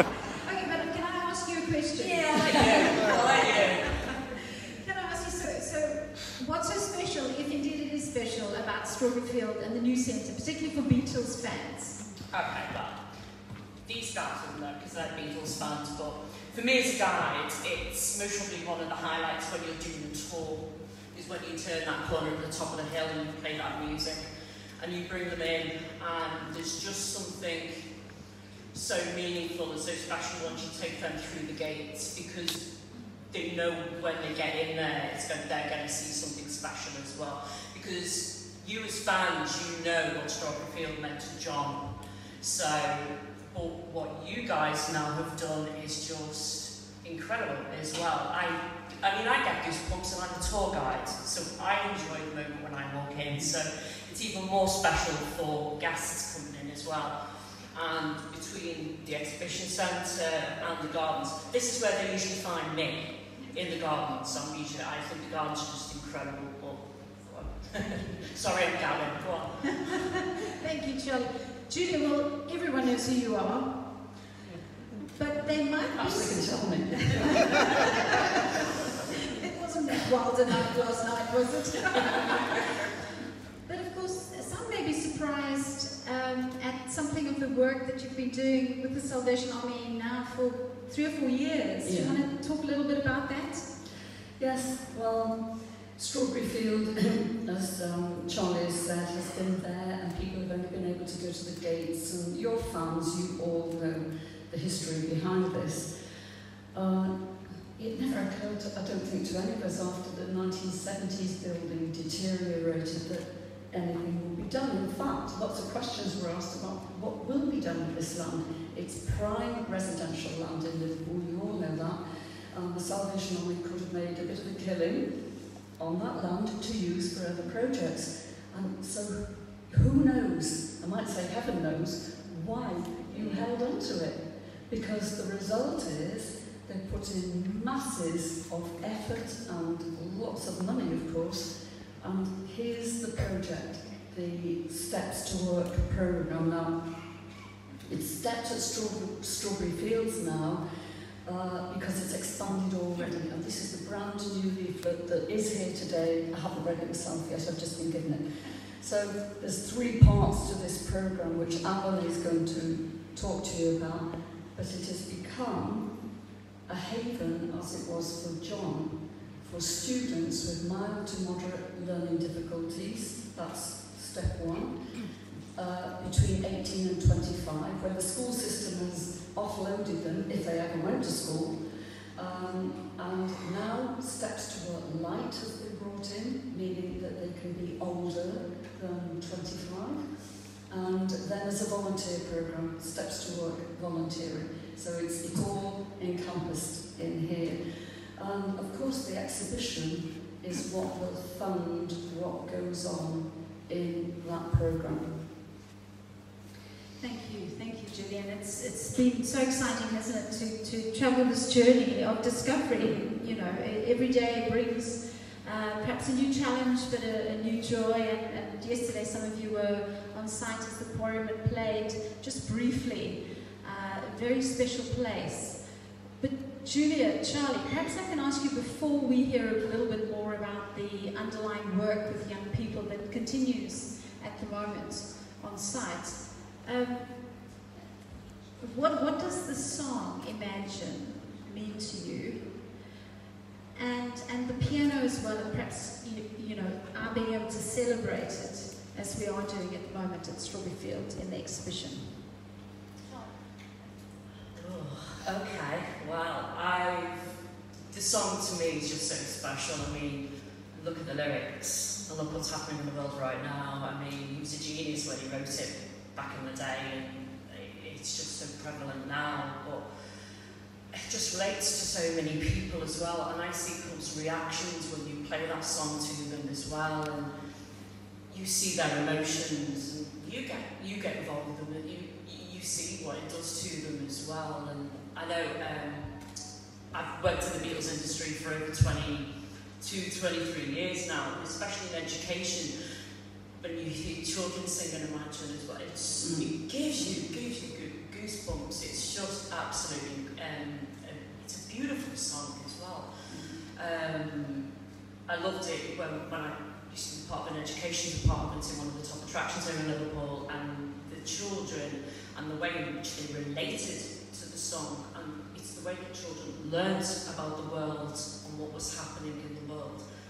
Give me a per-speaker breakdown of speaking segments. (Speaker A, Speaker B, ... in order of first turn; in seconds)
Speaker A: 0.4-3.4, 4.7-12.0, 70.6-74.0, 75.1-77.0, 79.4-82.7, 83.6-93.7, 207.0-237.3, 238.6-242.5, 243.7-252.2
Speaker B: 2.4-4.2, 12.3-13.0, 13.8-24.2, 24.8-27.9, 28.7-32.7, 33.3-57.1, 57.7-70.0, 133.1-133.5, 254.5-257.4, 257.9-269.9, 270.9-277.3, 278.3-286.2, 286.9-292.7, 293.6-304.7, 305.3-320.0
Speaker C: 76.0-77.7, 91.8-92.2, 94.4-105.9, 106.7-122.0, 122.5-125.2, 125.8-146.8, 147.9-150.6, 151.2-166.0, 166.7-181.6, 182.1-205.1, 296.2-296.5, 303.3-303.6